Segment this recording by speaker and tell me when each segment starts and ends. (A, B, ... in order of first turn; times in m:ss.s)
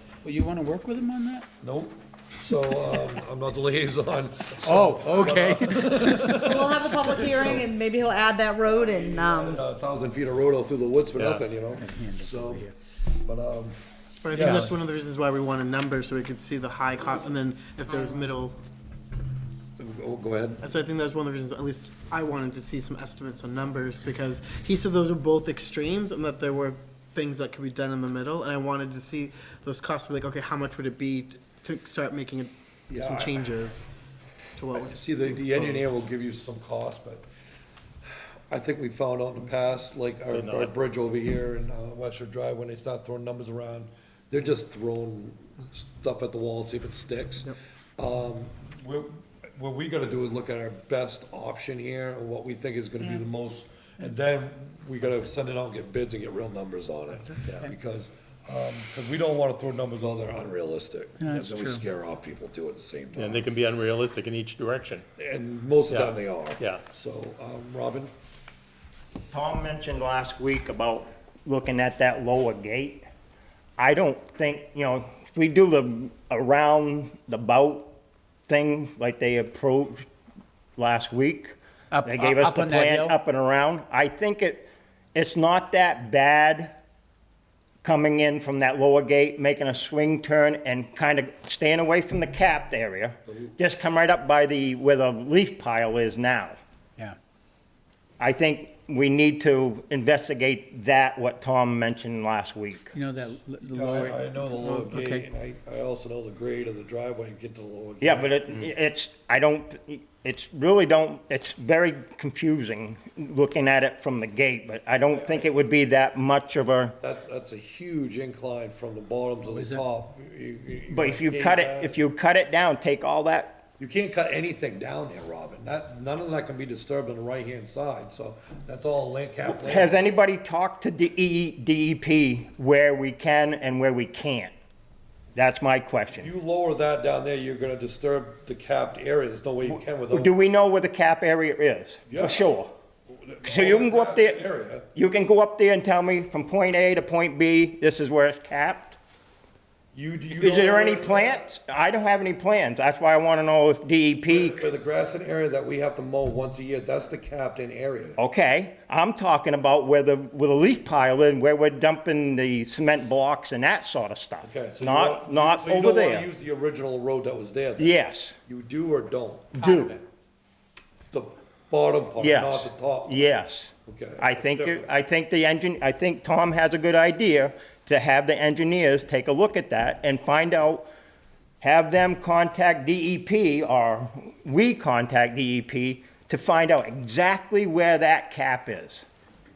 0:00.2-0:01.5 A
0:01.6-0:07.7 B
0:04.6-0:06.6 A
0:06.4-0:09.6 C
0:08.6-0:12.6 B
0:11.1-0:11.5 D
0:11.7-0:12.7 A
0:13.2-0:13.8 B
0:14.2-0:18.6 E
0:14.3-0:14.7 B
0:14.4-0:14.7 A
0:19.8-0:20.6 B
0:20.6-0:33.8 E
0:32.9-0:33.5 B
0:34.6-0:36.0 E
0:34.8-0:37.2 B
0:38.5-1:03.4 B
0:40.3-0:40.7 D
1:01.2-1:01.8 A
1:03.1-1:05.0 D
1:05.2-1:08.1 B
1:05.9-1:06.8 D
1:09.3-1:13.1 F
1:13.8-1:17.9 F
1:18.5-1:20.0 F
1:20.8-1:26.8 F
1:21.9-1:23.2 A
1:27.8-1:36.6 F
1:38.2-1:42.9 F
1:42.9-1:45.3 A
1:43.7-1:48.3 B
1:48.0-1:56.9 F
1:55.1-1:55.5 B
1:57.0-2:02.0 B
1:59.5-1:59.8 A
2:00.9-2:03.6 F
2:03.8-2:10.1 B
2:09.4-2:14.5 F
2:15.3-2:16.3 F
2:16.2-2:20.3 B
2:20.1-2:22.7 F
2:22.1-2:22.5 B
2:23.1-2:24.9 B
2:23.4-2:29.0 F
2:29.9-2:31.5 B
2:30.4-2:34.7 F
2:34.3-2:38.2 B
2:38.2-2:46.3 F
2:44.4-2:47.9 B
2:47.8-2:48.4 F
2:48.5-2:49.6 B
2:49.6-2:50.0 F
2:49.6-2:50.0 A
2:51.1-2:53.3 B
2:52.2-3:00.8 F
2:53.8-2:54.9 B
3:01.6-3:09.1 F